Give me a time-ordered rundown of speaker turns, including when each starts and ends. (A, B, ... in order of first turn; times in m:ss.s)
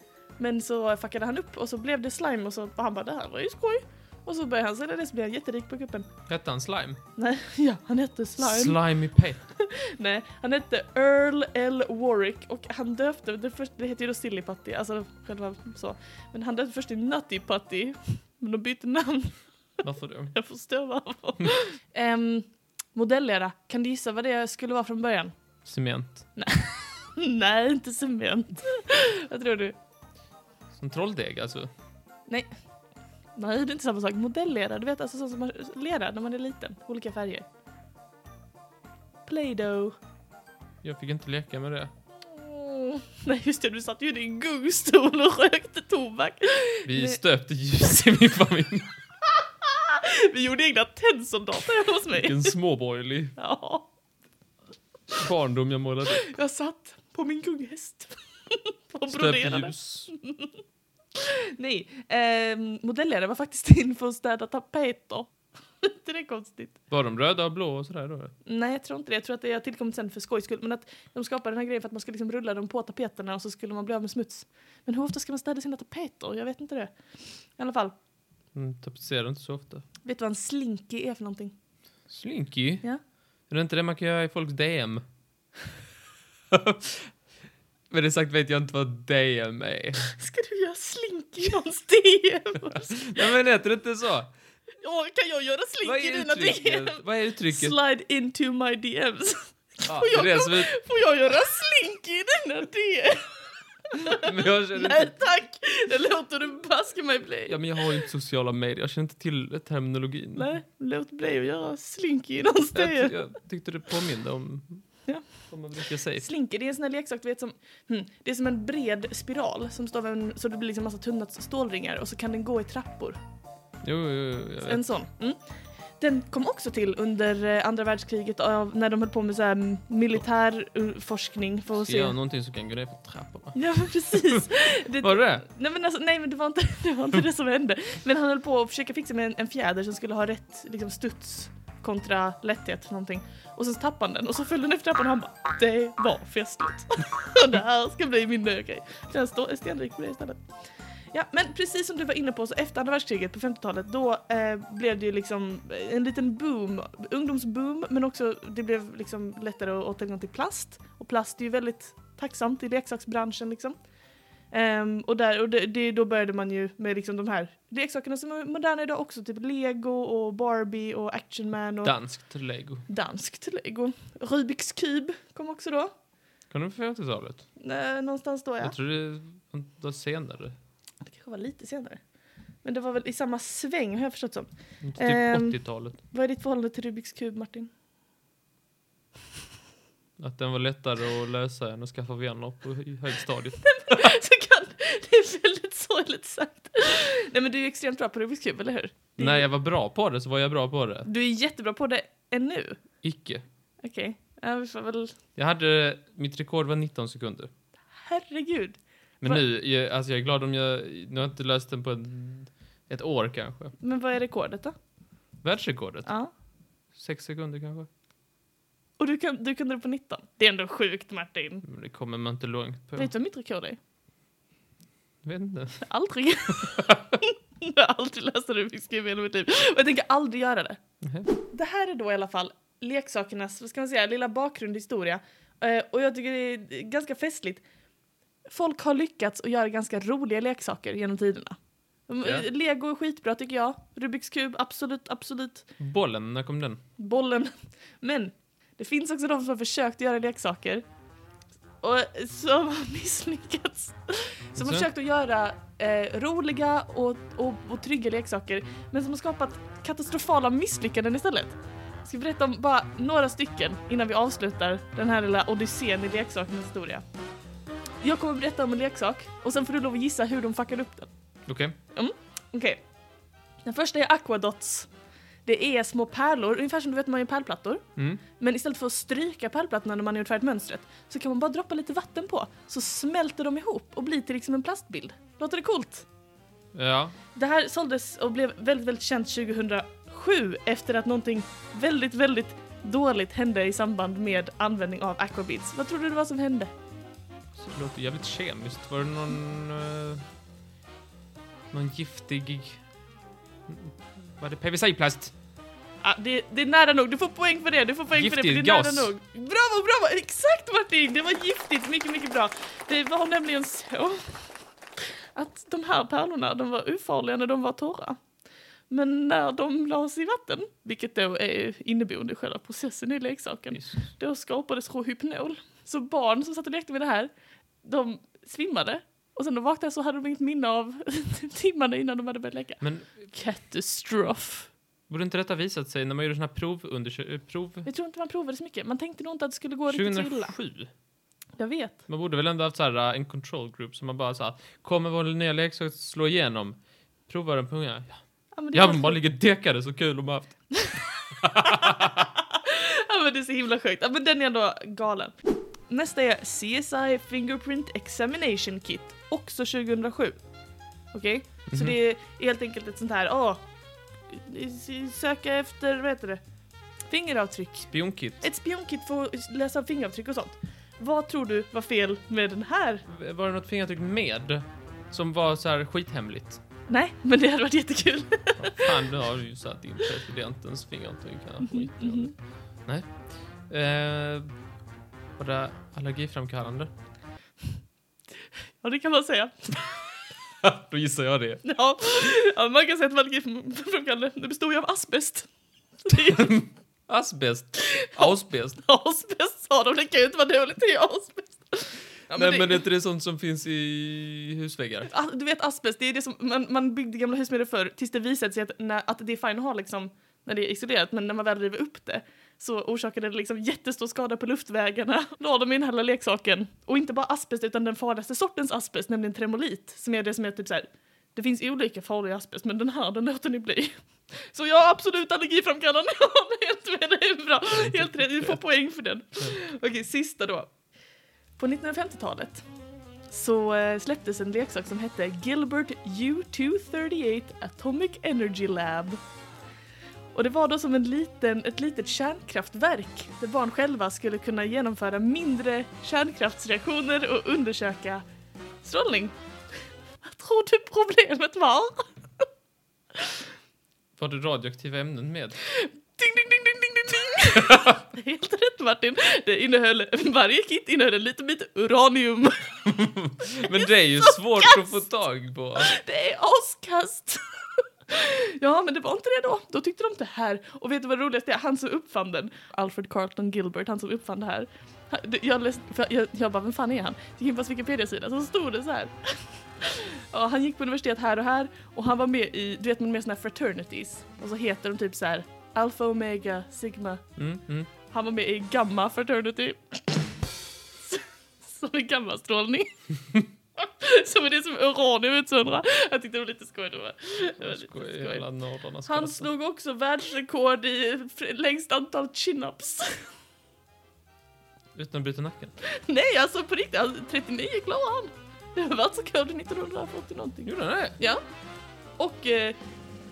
0:00.4-0:06.1 A
0:06.3-0:07.0 B
0:07.2-0:08.8 A
0:08.4-0:09.4 B
0:09.4-0:19.4 A
0:19.8-0:20.4 B
0:20.3-0:25.3 A
0:25.6-0:26.2 B
0:26.4-0:29.8 A
0:30.8-0:31.7 B
0:33.3-0:37.4 A
0:39.2-0:40.0 A
0:40.8-0:41.9 B
0:42.2-0:47.2 A
0:46.8-0:48.9 B
0:49.4-0:52.6 A
0:52.1-0:53.4 B
0:53.4-0:53.9 A
0:55.1-0:56.3 B
0:56.1-1:00.6 A
0:59.1-1:00.1 B
1:01.1-1:06.8 A
1:06.9-1:08.3 B
1:08.4-1:17.9 A
1:18.5-1:19.8 B
1:20.0-1:21.5 A
1:22.1-1:22.8 B
1:23.5-1:25.0 B
1:26.5-1:27.1 B
1:27.9-1:30.1 B
1:30.0-1:33.3 A
1:32.7-1:34.3 B
1:34.8-1:43.4 A
1:35.8-1:37.8 B
1:39.8-1:40.7 B
1:43.9-1:47.6 A
1:44.0-1:45.1 B
1:47.5-1:50.5 B
1:50.4-1:53.2 A
1:52.7-1:54.8 B
1:55.5-1:56.3 B
1:56.1-2:03.2 A
2:03.8-2:04.8 B
2:04.6-2:05.4 A
2:06.0-2:12.1 A
2:11.8-2:13.6 B
2:13.5-2:30.4 A
2:14.2-2:15.4 B
2:31.1-2:43.8 A
2:44.5-2:51.9 A
2:51.8-2:52.8 B
2:52.9-2:55.9 A
2:56.5-2:57.4 B
2:57.6-2:58.8 A
2:58.6-3:00.5 B
3:01.0-3:02.0 A
3:02.6-3:07.7 A
3:04.8-3:06.0 B
3:10.2-3:14.2 B
3:13.6-3:19.4 A
3:19.2-3:21.1 B
3:21.0-3:22.8 A
3:23.0-3:23.4 B
3:23.8-3:25.2 A
3:25.4-3:27.5 B
3:27.9-3:29.4 A
3:29.2-3:33.7 B
3:33.8-3:34.7 A
3:35.4-3:36.1 B
3:36.0-3:36.3 A
3:37.0-3:37.9 B
3:39.0-3:41.6 A
3:41.6-3:43.1 B
3:43.0-3:43.8 A
3:45.2-3:45.9 B
3:45.8-3:50.8 A
3:46.8-3:47.1 B
3:51.0-3:51.3 B
3:51.5-3:57.6 A
3:58.4-4:05.7 A
4:02.2-4:02.5 B
4:05.8-4:06.8 B
4:07.0-4:10.8 A
4:11.8-4:27.0 A
4:14.6-4:14.9 B
4:28.0-4:31.1 A
4:31.5-4:31.8 B
4:31.9-4:32.8 A
4:33.6-4:34.9 A
4:35.4-4:46.0 A
4:38.0-4:38.2 B
4:46.7-4:47.1 B
4:47.3-4:56.7 A
4:57.6-5:00.2 B
5:01.7-5:02.8 B
5:03.7-5:05.3 B
5:06.0-5:18.2 A
5:08.1-5:09.1 B
5:18.9-5:27.3 A
5:23.7-5:24.1 B
5:27.8-5:34.7 A
5:32.8-5:33.3 B
5:35.1-5:37.9 B
5:37.8-5:40.5 A
5:39.9-5:40.9 B
5:41.6-5:42.0 A
5:42.1-5:48.2 B
5:48.5-5:49.2 A
5:48.7-5:50.6 B
5:50.7-5:55.3 A
5:51.4-5:52.3 B
5:55.9-6:00.4 A
6:01.1-6:03.6 A
6:01.7-6:02.0 B
6:04.3-6:06.4 A
6:07.1-6:13.0 A
6:07.9-6:08.4 B
6:13.1-6:16.6 B
6:16.9-6:19.0 A
6:18.6-6:23.1 B
6:21.6-6:22.3 A
6:23.7-6:24.5 B
6:25.4-6:26.9 B
6:28.8-6:30.0 A
6:30.6-6:31.6 B
6:31.6-6:35.5 A
6:36.0-6:36.7 A
6:36.2-6:38.8 B
6:37.9-6:42.8 A
6:42.3-6:45.1 B
6:45.0-7:10.7 A
7:07.9-7:08.6 B
7:11.6-7:12.6 A
7:13.3-7:19.2 A
7:20.3-7:28.2 A
7:28.8-7:29.4 A
7:30.2-7:32.4 A
7:33.1-7:33.4 A
7:34.2-7:35.6 B
7:35.6-7:42.8 A
7:37.6-7:38.0 B
7:42.8-7:45.9 B
7:43.6-7:45.0 A
7:45.8-8:07.2 A
8:07.4-8:07.9 B
8:08.1-8:10.3 A
8:11.0-8:18.4 A
8:17.6-8:19.5 B
8:19.0-8:23.3 A
8:25.0-8:25.7 B
8:25.8-8:31.4 A
8:30.6-8:31.2 B
8:32.2-8:32.8 A